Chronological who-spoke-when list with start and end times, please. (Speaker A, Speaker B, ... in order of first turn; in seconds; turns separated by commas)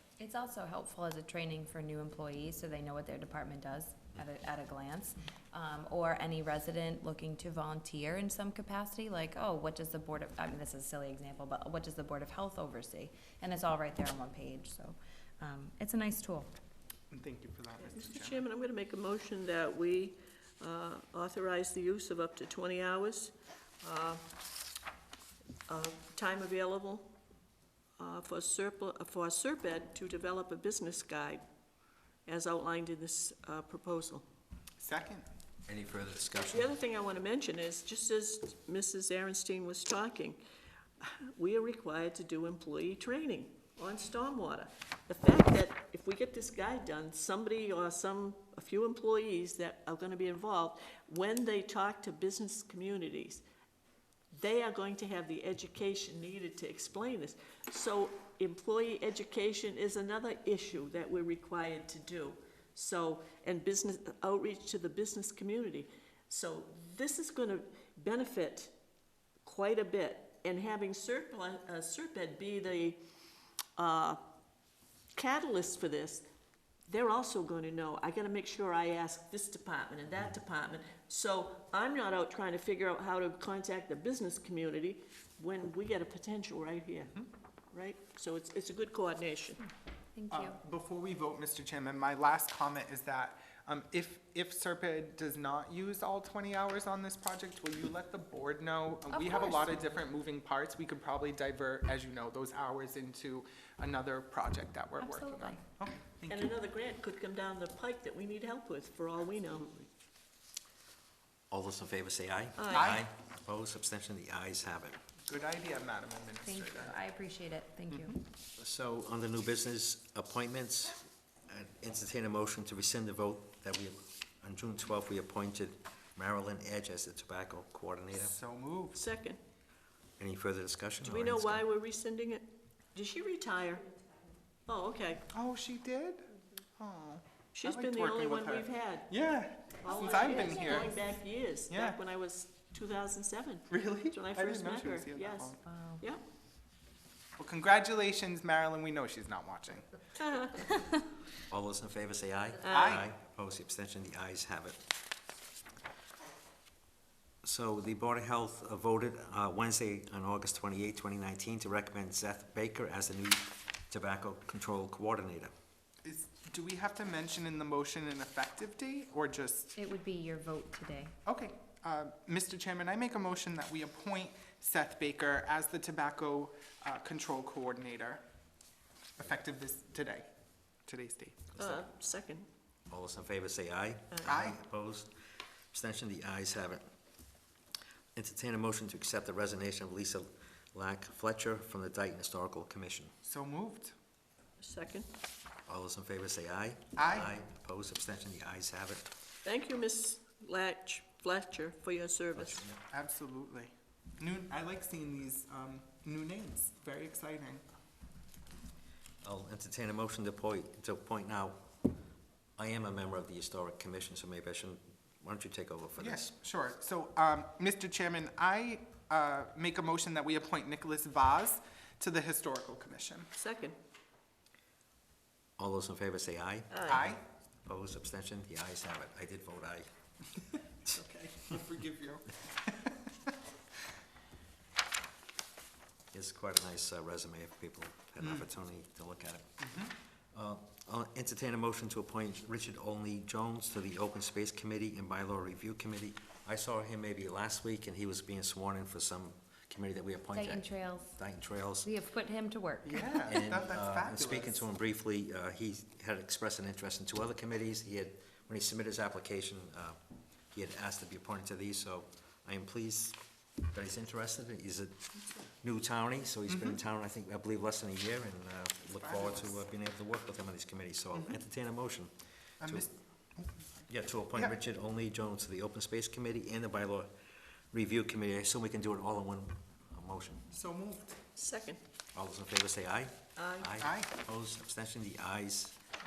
Speaker A: 0.2-16.5, Speaker B: 17.1-18.4, Speaker C: 17.8-24.2, Speaker C: 25.7-27.1, Speaker C: 28.0-31.4, Speaker C: 32.2-34.2, Speaker B: 34.8-35.2, Speaker D: 35.7-36.7, Speaker C: 36.5-40.4, Speaker C: 41.0-53.4, Speaker C: 54.3-68.7, Speaker C: 69.4-73.0, Speaker C: 73.8-74.2, Speaker C: 75.1-76.3, Speaker C: 76.9-87.1, Speaker C: 87.7-89.6, Speaker A: 90.1-90.6, Speaker B: 90.3-106.5, Speaker A: 99.1-100.0, Speaker A: 105.0-105.6, Speaker C: 106.3-109.7, Speaker D: 111.5-115.0, Speaker C: 112.6-113.0, Speaker B: 112.7-113.0, Speaker B: 115.3-117.0, Speaker A: 116.4-118.2, Speaker D: 118.5-128.3, Speaker B: 128.2-129.0, Speaker C: 128.9-129.4, Speaker D: 130.2-131.6, Speaker C: 131.0-133.9, Speaker C: 134.7-135.3, Speaker B: 135.3-140.9, Speaker C: 137.5-139.2, Speaker C: 139.8-146.2, Speaker A: 140.3-140.8, Speaker B: 141.7-142.0, Speaker B: 143.7-145.6, Speaker A: 145.7-146.0, Speaker B: 147.4-149.9, Speaker C: 150.3-150.6, Speaker D: 151.5-154.8, Speaker C: 152.7-152.9, Speaker B: 152.7-153.1, Speaker D: 157.4-165.5, Speaker B: 166.0-169.8, Speaker A: 169.8-171.1, Speaker B: 171.2-178.2, Speaker B: 179.2-180.3, Speaker B: 180.8-181.5, Speaker C: 181.6-182.5, Speaker D: 182.9-185.1, Speaker B: 184.2-184.6, Speaker D: 185.7-186.8, Speaker D: 188.1-193.1, Speaker B: 193.2-193.9, Speaker C: 194.6-195.1, Speaker D: 195.7-199.1, Speaker B: 196.9-197.3, Speaker C: 199.4-202.6, Speaker D: 202.3-202.8, Speaker B: 202.9-207.6, Speaker D: 209.2-211.6, Speaker D: 212.6-216.3, Speaker B: 216.0-223.3, Speaker C: 223.3-223.8, Speaker D: 225.6-229.9, Speaker C: 226.7-227.1, Speaker B: 226.9-227.2, Speaker B: 230.9-233.0, Speaker D: 236.1-239.6, Speaker B: 239.6-239.9, Speaker D: 240.3-251.9, Speaker A: 250.3-251.2, Speaker A: 251.8-253.3, Speaker B: 252.8-254.6, Speaker D: 253.2-260.0, Speaker D: 260.5-263.2, Speaker D: 263.7-265.1, Speaker D: 265.6-272.9, Speaker B: 266.5-266.8, Speaker B: 269.0-269.5, Speaker B: 271.1-271.4, Speaker B: 272.6-273.8, Speaker D: 273.9-277.1, Speaker D: 277.7-280.5, Speaker B: 280.5-281.2, Speaker C: 281.4-281.8, Speaker D: 282.1-285.8, Speaker C: 283.4-283.7, Speaker B: 283.8-284.1